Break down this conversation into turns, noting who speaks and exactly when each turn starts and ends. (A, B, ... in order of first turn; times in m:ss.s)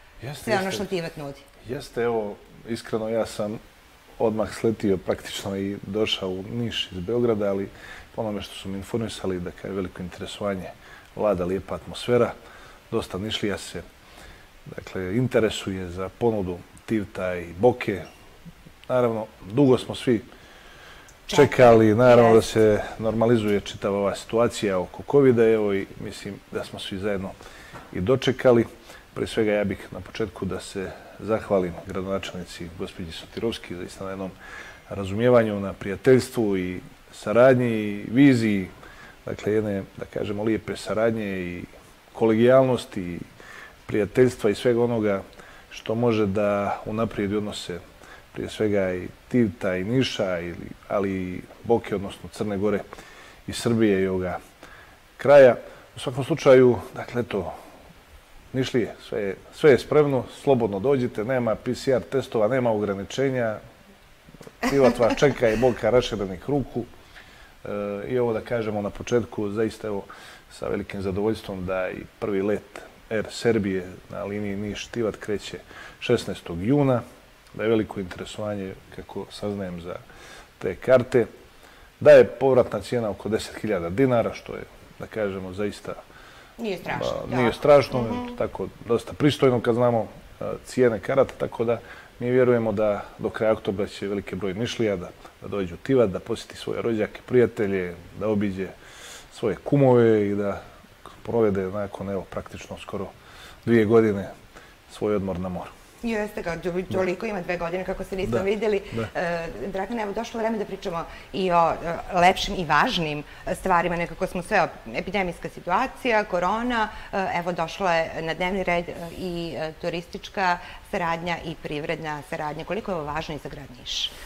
0:00.2-0:00.9 A
0:00.4-0:01.5 B
0:01.6-0:03.6 A
0:04.2-0:12.3 A
0:12.9-0:13.8 A
0:14.7-0:18.1 A
0:18.9-0:20.2 A
0:21.3-0:22.4 B
0:21.3-0:27.3 A
0:27.9-0:34.3 A
0:34.9-0:38.7 A
0:39.2-0:43.2 A
0:43.9-0:47.8 A
0:48.3-0:52.8 A
0:53.5-0:54.4 A
0:55.2-0:57.5 A
0:58.5-1:03.6 A
1:04.6-1:06.9 A
1:07.6-1:17.0 A
1:17.5-1:20.0 A
1:20.6-1:21.3 A
1:22.0-1:26.0 A
1:26.6-1:28.3 B
1:26.9-1:38.8 A
1:39.3-1:43.1 A
1:43.6-1:44.3 A
1:44.9-1:45.7 A
1:46.0-2:04.1 B
1:48.3-1:49.1 A